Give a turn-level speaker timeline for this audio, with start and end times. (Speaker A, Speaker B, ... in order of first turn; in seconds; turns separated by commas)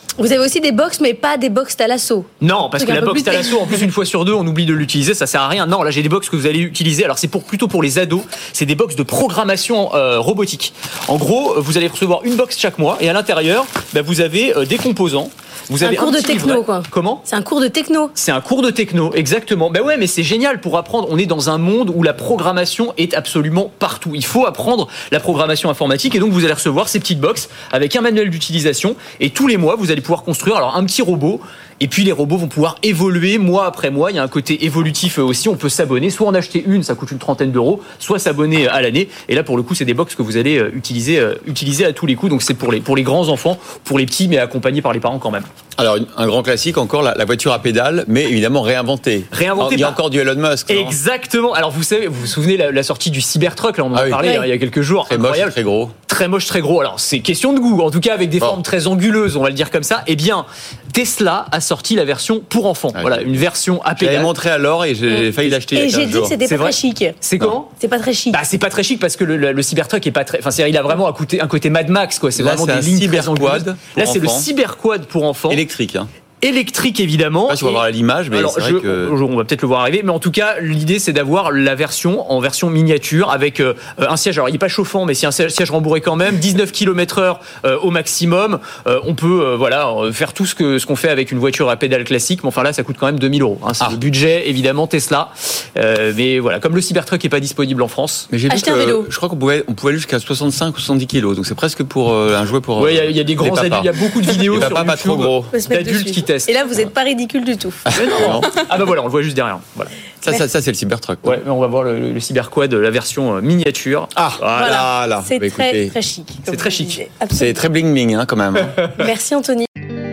Speaker A: 0.2-3.8, Speaker B: 2.4-17.2, Speaker A: 15.8-18.1, Speaker B: 18.1-45.5, Speaker C: 45.8-51.0, Speaker B: 49.3-50.0, Speaker B: 50.7-64.3, Speaker C: 53.9-54.2, Speaker A: 54.2-54.5, Speaker C: 55.1-55.9, Speaker C: 62.9-63.4, Speaker C: 64.0-66.4, Speaker B: 65.3-65.6, Speaker A: 65.7-67.2, Speaker B: 66.4-67.7, Speaker A: 67.8-68.4, Speaker B: 68.3-75.6, Speaker C: 72.3-74.5, Speaker C: 75.5-76.1, Speaker B: 76.4-98.3, Speaker C: 77.5-79.2, Speaker C: 98.3-105.5, Speaker A: 98.5-99.1, Speaker B: 102.8-106.6, Speaker A: 105.5-107.8, Speaker C: 107.9-108.5, Speaker B: 107.9-110.0, Speaker C: 110.2-111.4, Speaker B: 111.2-114.8, Speaker C: 114.2-115.9, Speaker A: 114.5-117.6, Speaker B: 116.5-117.0, Speaker C: 117.3-118.9, Speaker A: 118.9-119.7